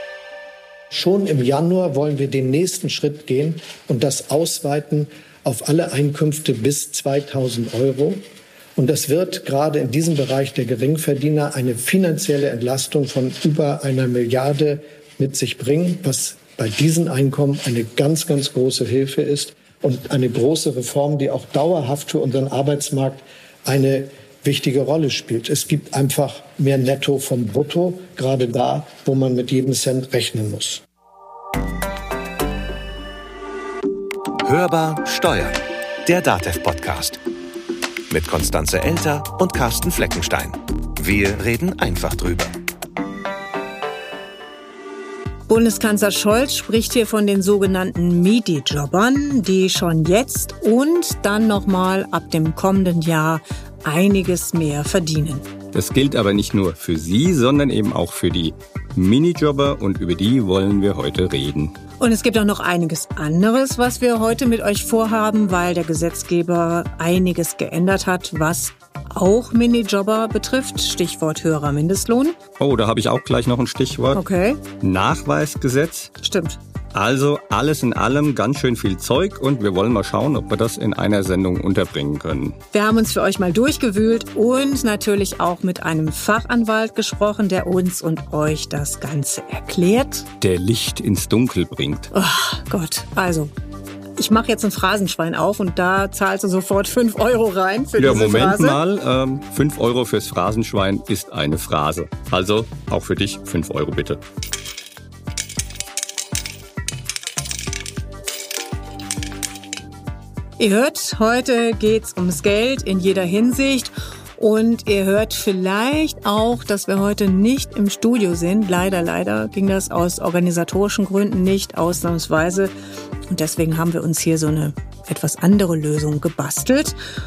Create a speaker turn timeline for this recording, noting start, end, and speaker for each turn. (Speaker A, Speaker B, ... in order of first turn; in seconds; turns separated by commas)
Speaker A: 0.9-8.2, Speaker A: 8.8-30.8, Speaker B: 34.4-37.2, Speaker B: 38.1-42.5, Speaker C: 45.5-55.5, Speaker D: 55.7-61.8, Speaker C: 62.0-72.4, Speaker D: 72.6-74.2, Speaker C: 74.1-74.6, Speaker D: 74.8-76.1, Speaker C: 76.2-76.6, Speaker D: 76.9-82.6, Speaker C: 82.7-90.3, Speaker D: 90.4-92.1, Speaker C: 92.1-93.5, Speaker C: 94.2-98.8, Speaker D: 98.0-104.2, Speaker C: 110.6-122.7, Speaker C: 123.3-127.0